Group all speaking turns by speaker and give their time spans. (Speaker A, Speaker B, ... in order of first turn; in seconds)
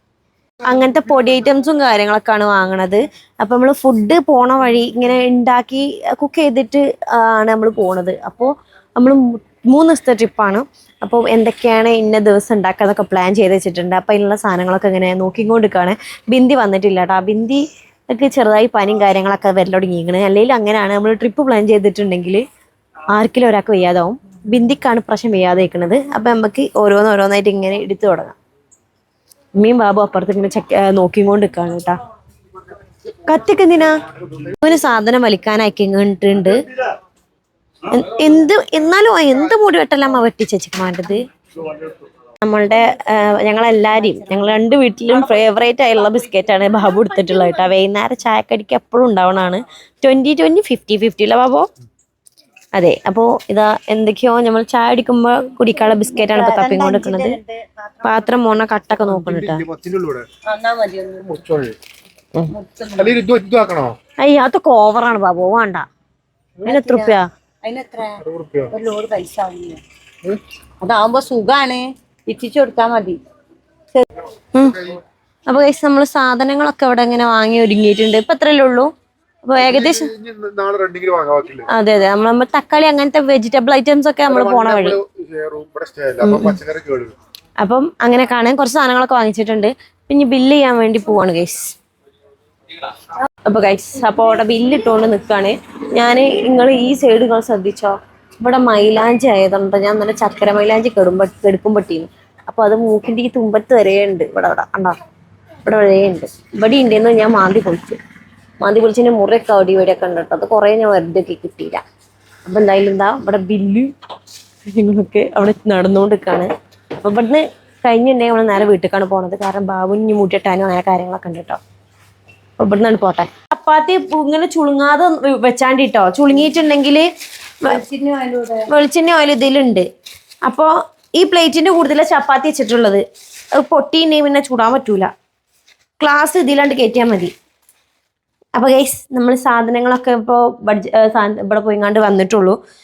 Speaker A: 0.6-22.4, 23.1-28.4, 29.6-32.0, 33.2-36.5, 37.9-41.2, 42.4-51.7, 52.7-57.4, 58.0-59.6, 64.2-65.8, 66.7-67.3, 74.5-74.8, 75.5-78.9, 79.4-80.1, 81.7-85.0, 86.2-86.6, 87.6-91.8, 93.5-105.0, 105.6-108.0, 108.6-111.8, 112.5-113.9, 114.7-121.6, 122.6-127.0, 128.7-129.8, 130.4-135.1, 136.0-137.3, 138.6-142.6
Speaker B: 55.9-58.3, 60.4-61.4, 62.5-63.2, 66.6-69.8, 70.8-73.2, 127.7-128.7
Speaker C: 59.0-60.3, 61.2-61.8, 63.0-63.9, 68.2-68.7, 79.5-81.7, 84.3-87.1